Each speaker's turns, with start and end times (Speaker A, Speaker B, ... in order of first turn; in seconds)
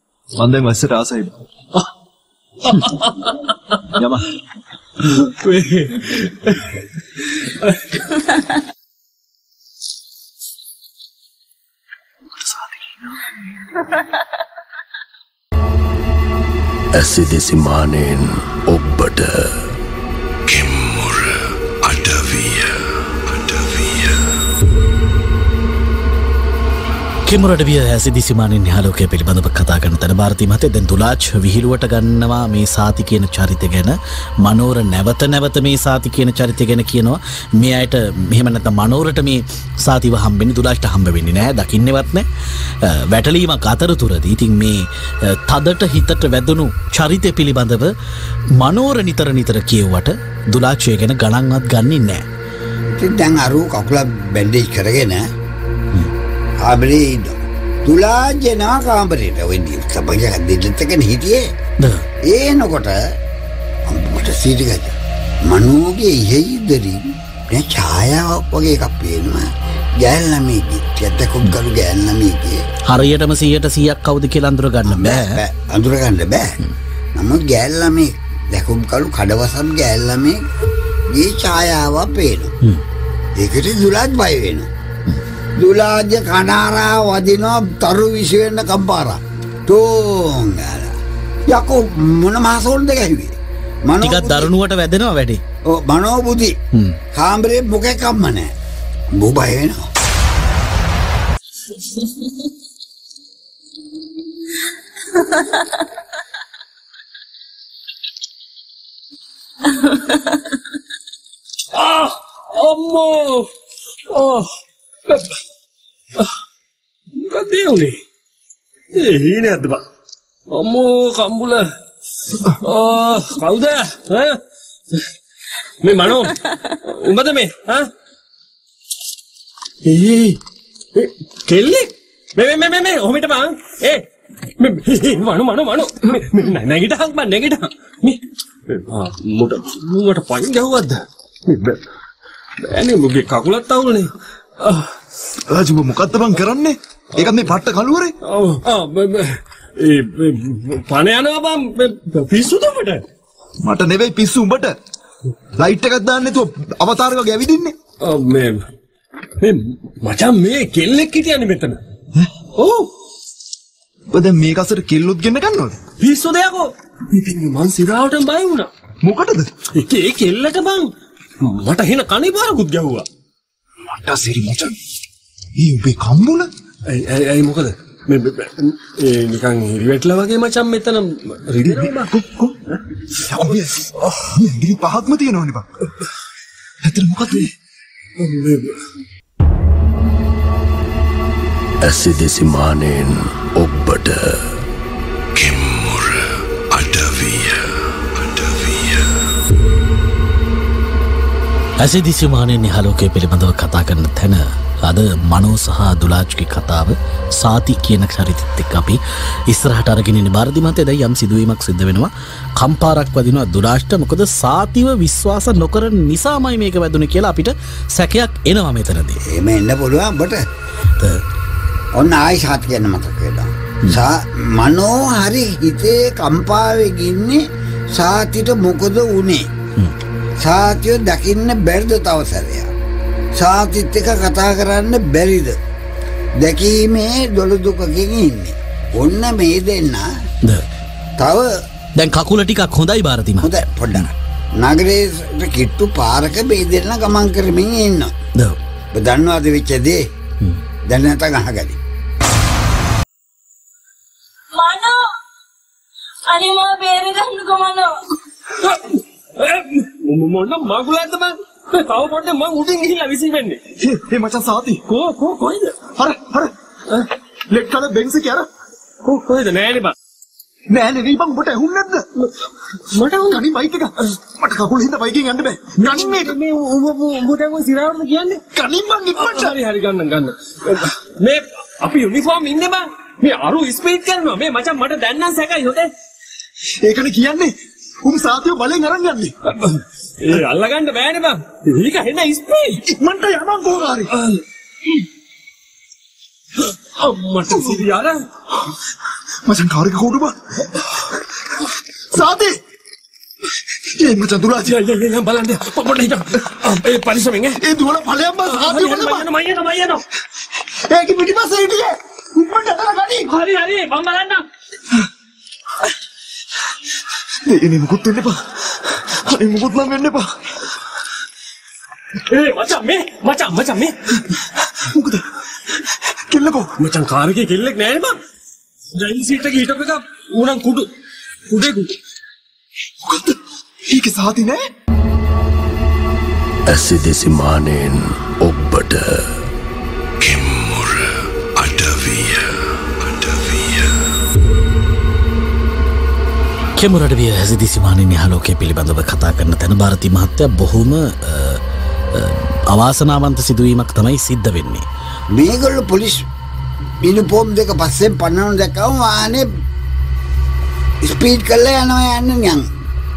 Speaker A: 0.3-1.4, 3.9-4.3, 12.4-12.9, 145.5-148.2, 153.6-154.8, 155.6-157.8, 164.1-165.8, 169.0-169.5, 173.9-174.8, 175.6-176.5, 181.6-182.6, 183.2-185.7, 186.8-187.5, 263.8-264.9, 265.9-266.5, 267.5-268.5, 270.7-272.1, 273.3-276.4, 278.5-279.6, 286.8-289.3, 292.9-294.1, 297.5-297.8, 299.4-301.1, 302.1-302.6, 303.8-304.8, 307.6-309.3, 310.6-313.2, 317.5-320.6, 324.6-326.7, 333.0-334.7
Speaker B: 2.6-3.8, 5.0-8.1, 111.7-113.5, 114.1-114.5, 115.1-115.3, 117.2-118.0, 118.9-119.8, 120.5-121.7, 122.5-124.4, 125.8-127.9, 129.8-130.4, 130.9-134.1, 134.6-141.8, 142.6-144.9, 148.2-153.1, 158.0-158.7, 159.4-161.8, 162.6-162.9, 166.0-168.7, 169.7-173.1, 176.9-182.1, 184.0-184.3, 188.2-188.8, 258.6-263.6, 264.9-265.8, 269.0-269.9, 272.9-273.4, 275.8-278.4, 279.2-285.9, 289.5-292.8, 294.1-295.0, 296.6-298.3, 304.6-307.6, 308.5-310.0, 312.9-314.4, 322.2-324.0, 326.8-328.2, 328.9-330.9, 331.5-332.0
Speaker C: 16.9-19.6, 20.5-24.2, 191.8-194.5, 195.3-199.1, 336.7-339.3, 340.2-343.9
Speaker D: 27.3-42.3, 42.8-47.9, 48.6-52.2, 61.8-62.0, 72.9-75.4, 94.0-95.4, 96.7-97.0, 201.8-219.2, 242.0-244.1, 346.8-351.6, 352.1-354.9
Speaker E: 52.9-55.2, 56.6-61.5, 62.2-63.0, 63.9-65.0, 65.5-72.6, 74.9-76.6, 77.2-80.4, 81.1-82.5, 83.4-84.7, 85.6-91.0, 91.5-94.5, 95.7-96.6, 97.1-98.5, 99.2-99.9, 219.3-220.4, 221.9-229.5, 230.4-232.7, 233.4-235.6, 236.4-240.1, 241.2-241.6, 243.4-248.1, 248.9-250.1, 250.9-251.8, 355.3-356.2, 357.0-359.5, 361.0-362.7
Speaker F: 105.2-105.5, 109.8-110.2, 254.5-255.1, 256.3-257.9